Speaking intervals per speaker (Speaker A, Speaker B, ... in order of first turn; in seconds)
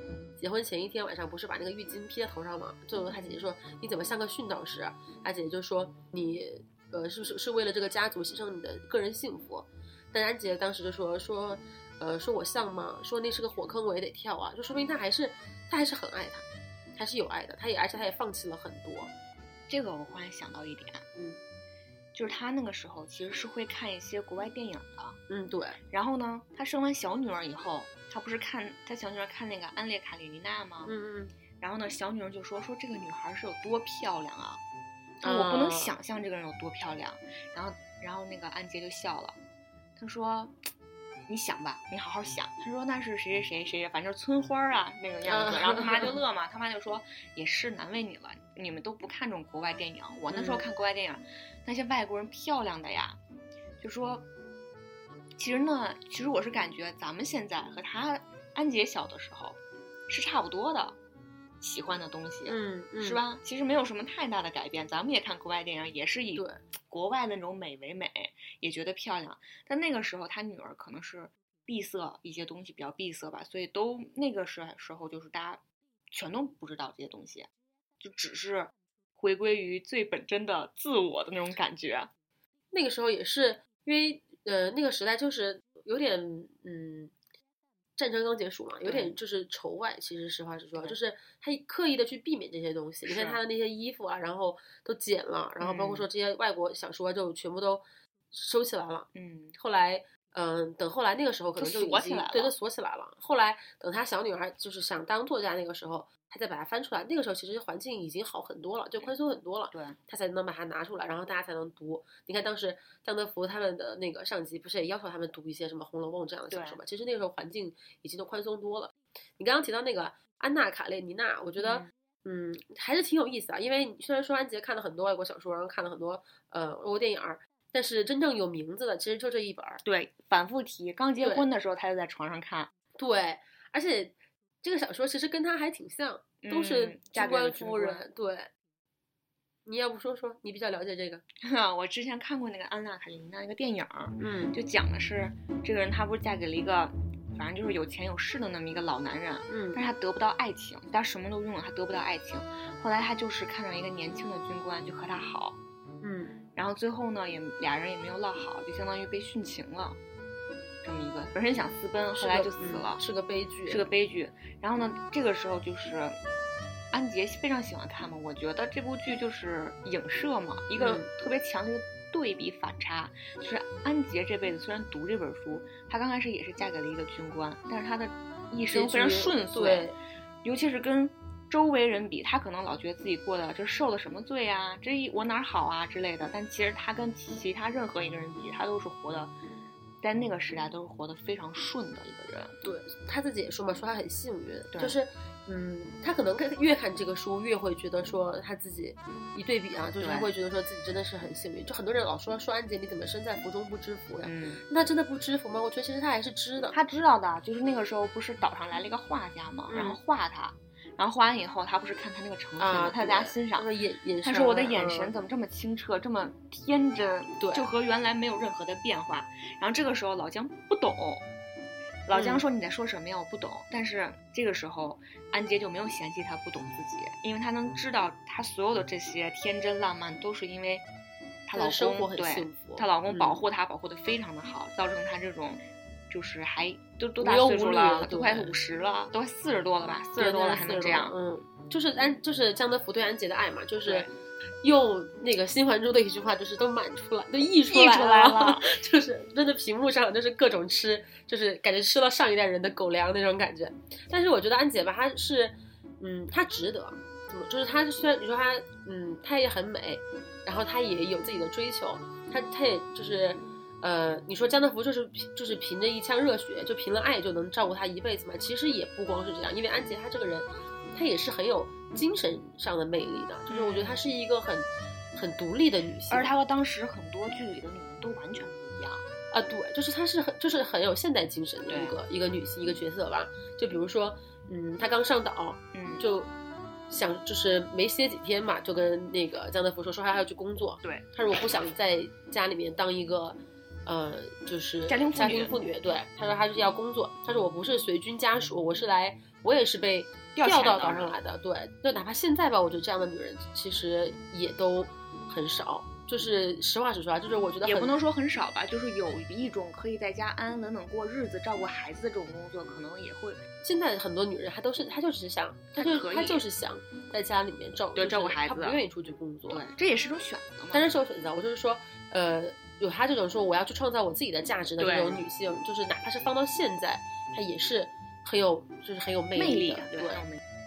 Speaker A: 0.4-16.4, 16.9-19.1, 25.3-25.8, 30.8-31.3, 35.2-35.9, 45.2-46.2, 50.3-50.7, 62.5-63.2, 66.3-66.6, 82.7-87.1, 88.0-129.8, 133.0-138.5, 139.7-141.2, 144.2-144.5, 149.5-149.8, 156.0-156.3, 162.2-163.8, 170.8-171.1, 178.7-180.0, 192.6-206.7, 209.7-210.0, 212.6-215.1, 217.4-217.7, 222.1-222.4, 231.5-233.4, 237.2-238.5, 240.1-244.1, 244.6-276.3, 279.3-286.3, 286.9-307.9, 313.6-319.6, 320.7-330.2
Speaker B: 3.1-3.4, 19.7-21.1, 22.1-25.2, 25.9-30.9, 31.6-34.6, 35.2-39.4, 40.0-40.6, 41.3-53.2, 53.8-54.2, 55.4-61.0, 61.6-82.1, 88.8-89.1, 93.0-93.4, 95.6-96.0, 99.1-99.5, 101.6-102.5, 109.7-110.0, 116.5-116.8, 121.6-121.9, 129.8-132.7, 136.4-138.0, 141.4-155.6, 156.5-160.0, 160.8-163.0, 163.7-166.2, 166.9-179.8, 180.4-189.3, 190.0-192.6, 200.0-200.3, 204.2-204.6, 206.7-213.7, 214.2-221.2, 222.1-230.8, 231.4-241.1, 243.8-244.1, 247.7-248.7, 273.5-274.0, 276.1-279.0, 281.7-282.0, 285.7-286.0, 294.9-295.5, 300.3-301.1, 307.6-313.4, 315.7-316.4, 317.9-318.8, 319.5-320.8, 324.8-325.2, 329.3-330.4